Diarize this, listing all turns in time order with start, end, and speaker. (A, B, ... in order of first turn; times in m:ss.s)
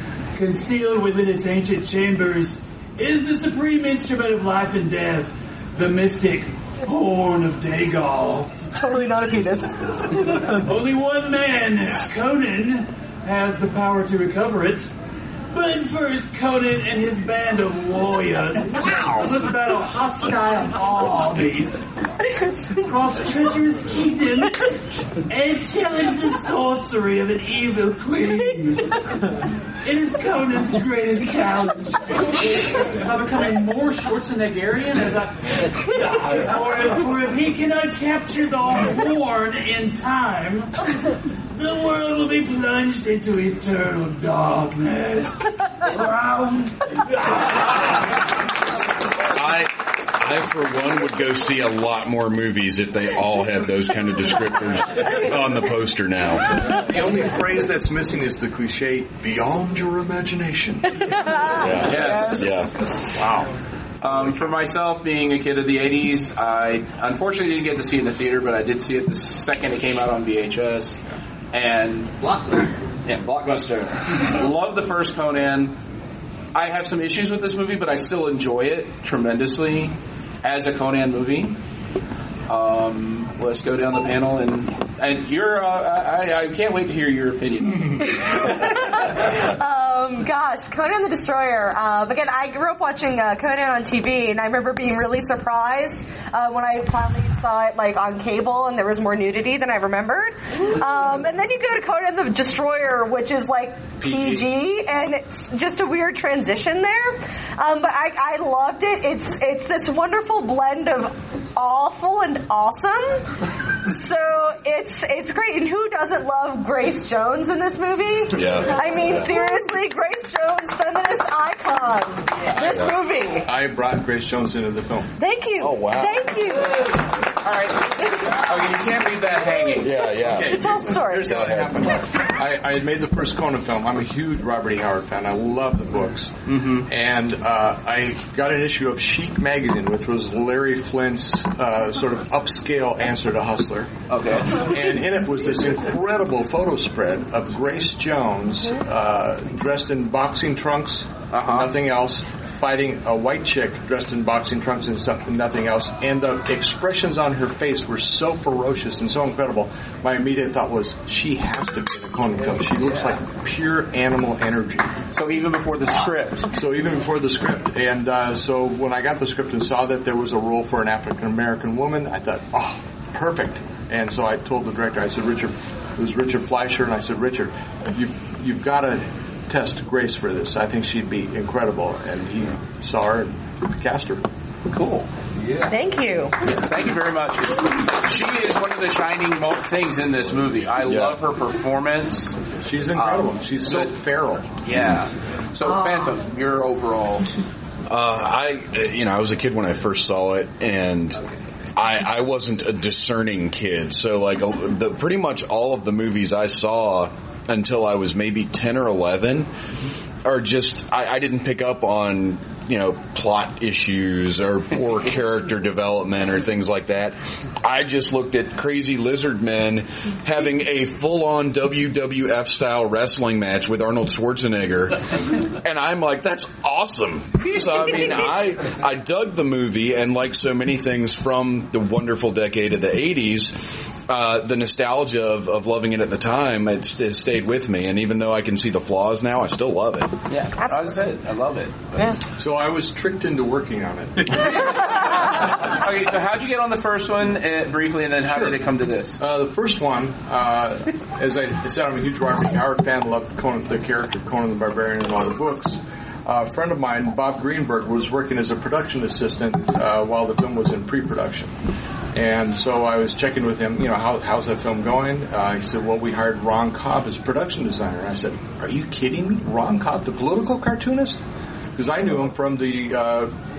0:00.4-0:08.5 A
0:08.8-0:10.5 B
0:10.5-0:14.9 A
0:15.5-0:21.8 A
0:22.8-0:29.0 A
0:29.8-0:40.7 A
0:41.5-0:48.0 A
0:49.3-0:56.6 C
0:56.6-1:01.6 D
1:01.4-1:02.4 B
1:01.5-1:02.7 C
1:01.8-1:02.4 E
1:03.1-1:03.5 D
1:04.0-1:11.0 E
1:04.1-1:04.4 D
1:11.5-1:15.8 E
1:16.5-1:21.6 E
1:22.5-1:28.3 E
1:28.4-1:53.3 B
1:44.0-1:44.4 D
1:53.8-2:03.5 B
1:58.3-1:59.4 C
2:02.6-2:03.0 C
2:03.4-2:05.1 D
2:05.2-2:06.9 B
2:05.6-2:06.4 C
2:07.4-2:10.1 E
2:09.8-2:12.0 C
2:10.0-2:11.5 B
2:10.2-2:16.3 D
2:16.5-2:16.9 E
2:16.9-2:23.9 D
2:24.1-2:24.6 E
2:24.5-2:45.0 D
2:31.3-2:31.8 E
2:45.1-2:46.5 E
2:46.5-3:04.2 D
3:04.7-3:05.1 E
3:05.7-3:06.4 B
3:06.4-3:12.4 E
3:10.8-3:11.2 C
3:12.6-3:14.5 D
3:13.0-3:13.9 E
3:14.6-3:17.3 E
3:15.6-3:16.0 B
3:17.9-3:21.2 C
3:21.8-3:29.5 C
3:30.2-3:45.1 C
3:45.6-3:53.6 C
3:54.1-4:00.1 C
4:00.3-4:02.1 E
4:00.6-4:00.9 B
4:02.4-4:04.8 D
4:04.5-4:09.2 E
4:08.2-4:08.6 D
4:09.2-4:21.5 D
4:22.1-4:31.2 D
4:31.8-4:33.3 D